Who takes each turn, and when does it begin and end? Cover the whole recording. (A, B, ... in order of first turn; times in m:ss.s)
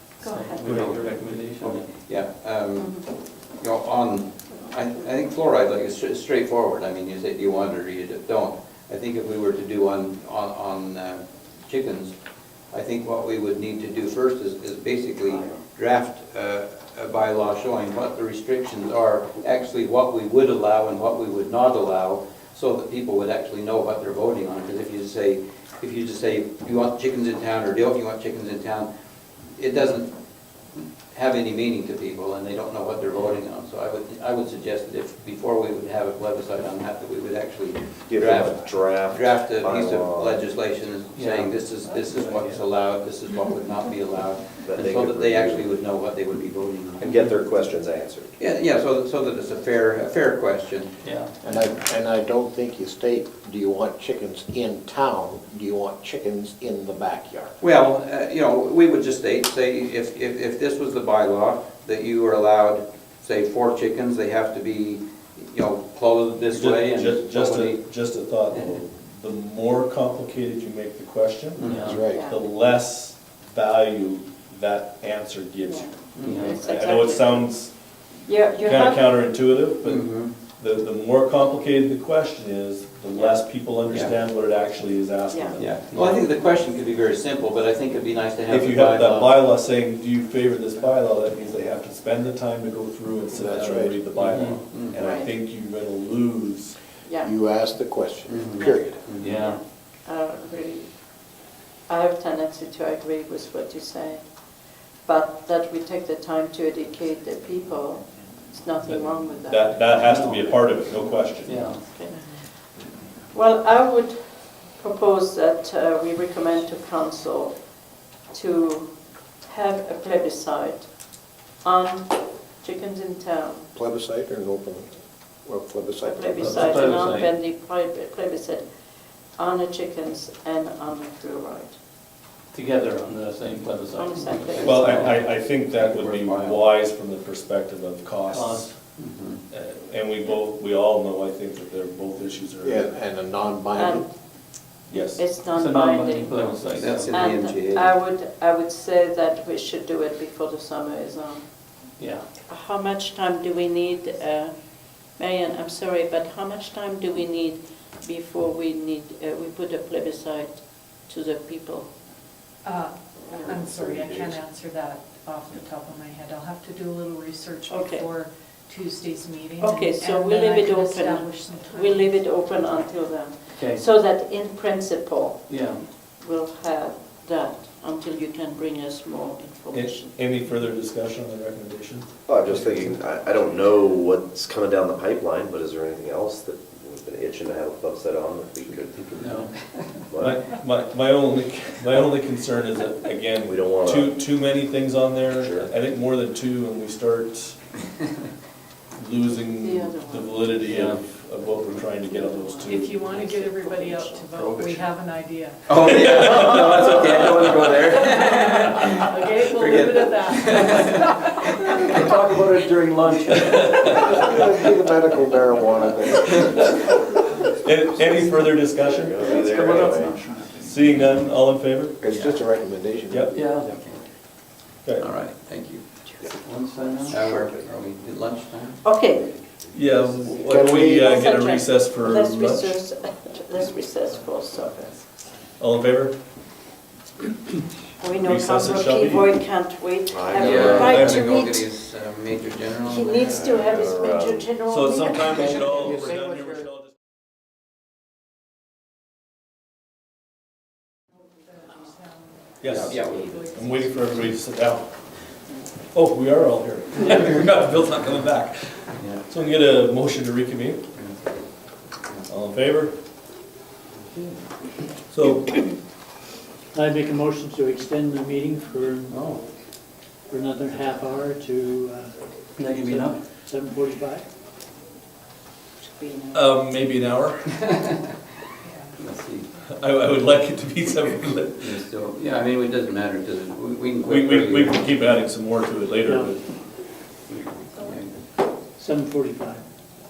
0:00.2-0:02.0 A
0:00.2-0:00.7 B
0:00.6-0:01.8 C
0:00.7-0:01.0 D
0:01.8-0:12.1 D
0:02.8-0:03.0 B
0:04.5-0:05.1 B
0:12.7-0:28.9 D
0:15.2-0:15.6 B
0:29.5-0:30.1 D
0:30.7-0:47.7 D
0:38.1-0:40.5 E
0:41.1-0:41.6 A
0:42.2-0:42.6 A
0:44.6-0:45.8 E
0:47.0-0:48.3 E
0:48.4-0:51.0 D
0:51.0-0:51.4 A
0:51.4-0:57.5 F
0:57.6-1:07.8 D
1:06.5-1:17.7 C
1:08.5-1:08.8 D
1:11.6-1:12.0 D
1:11.6-1:12.0 A
1:11.7-1:12.2 F
1:12.1-1:12.4 B
1:15.6-1:17.5 B
1:16.2-1:16.5 D
1:18.2-1:19.0 B
1:18.6-1:19.0 G
1:18.6-1:26.2 C
1:19.8-1:20.3 D
1:23.9-1:24.1 D
1:25.3-1:25.6 B
1:25.5-1:29.4 D
1:25.8-1:26.2 A
1:28.5-1:36.8 C
1:33.3-1:34.2 F
1:34.1-1:34.6 A
1:34.7-1:35.0 D
1:34.9-1:35.3 B
1:37.0-1:37.3 B
1:37.2-1:39.0 F
1:38.2-1:39.6 D
1:39.2-1:39.6 A
1:40.0-1:40.9 B
1:41.9-1:44.4 B
1:45.0-1:50.1 B
1:49.4-1:51.6 C
1:50.0-1:50.6 A
1:51.4-1:51.8 A
1:51.7-1:52.6 B
1:52.1-1:52.4 G
1:53.3-1:57.7 B
1:58.3-2:03.7 B
2:03.7-2:06.9 F
2:06.0-2:08.7 B
2:06.4-2:07.3 A
2:09.3-2:11.8 B
2:12.5-2:15.2 A
2:14.0-2:15.1 B
2:14.3-2:16.6 D
2:14.6-2:18.7 C
2:18.3-2:18.7 A
2:19.0-2:19.4 D
2:19.5-2:22.9 C
2:22.6-2:24.0 F
2:23.7-2:24.1 B
2:24.9-2:25.2 C
2:25.0-2:26.5 B
2:25.5-2:27.2 A
2:26.7-2:27.9 D
2:27.1-2:31.4 B
2:32.0-2:32.3 A
2:32.5-2:41.9 B
2:42.6-2:52.9 G
2:43.3-2:43.6 B
2:43.6-2:44.4 E
2:47.7-2:48.1 B
2:49.6-3:00.2 B
2:53.5-2:53.8 A
2:55.5-2:55.8 A
2:59.7-3:02.1 C
3:02.3-3:09.5 E
3:02.5-3:03.0 A
3:09.2-3:09.5 A
3:09.2-3:09.9 D
3:10.1-3:10.4 E
3:10.2-3:17.6 C
3:13.4-3:14.2 E
3:15.3-3:15.7 E
3:19.0-3:23.1 C
3:19.5-3:20.9 B
3:20.8-3:21.0 A
3:22.0-3:24.3 B
3:22.6-3:26.6 G
3:25.7-3:32.1 D
3:25.9-3:27.1 C
3:26.7-3:27.0 A
3:27.5-3:32.0 G
3:32.0-3:34.2 A
3:33.5-3:33.7 C
3:33.8-3:36.7 F
3:37.6-3:39.4 C
3:38.8-3:40.2 E
3:39.4-3:40.5 A
3:40.5-3:42.0 C
3:42.0-3:43.7 F
3:42.1-3:42.4 D
3:43.1-3:43.4 C
3:43.3-3:43.7 A
3:43.6-3:44.0 D
3:45.0-3:45.8 D
3:46.2-3:47.4 A
3:47.1-3:48.8 D
3:48.8-3:49.3 B
3:49.7-3:52.8 C
3:50.4-3:51.2 F
3:50.6-3:55.0 B
3:55.6-3:56.2 C
3:58.0-4:01.6 B
3:58.2-3:59.3 C
4:00.1-4:01.0 E
4:00.3-4:03.8 D
4:00.8-4:01.3 C
4:02.8-4:06.0 B
4:03.2-4:04.5 E
4:04.7-4:06.9 C
4:05.6-4:06.5 F
4:11.5-4:14.3 G
4:12.6-4:14.9 C
4:12.6-4:13.4 D
4:15.9-4:20.8 C
4:18.9-4:19.2 D
4:20.9-4:21.4 D
4:22.3-4:23.0 C
4:25.1-4:25.6 C
4:26.7-4:29.2 H
4:30.3-4:34.2 H
4:32.6-4:33.2 A
4:35.8-4:36.5 B
4:36.3-4:37.6 C
4:37.5-4:38.1 D
4:38.6-4:39.0 G
4:39.0-4:39.5 D
4:39.7-4:41.8 C
4:41.6-4:44.9 D
4:44.0-4:46.4 C
4:46.0-4:46.3 H
4:47.3-4:48.1 D
4:48.8-4:49.6 H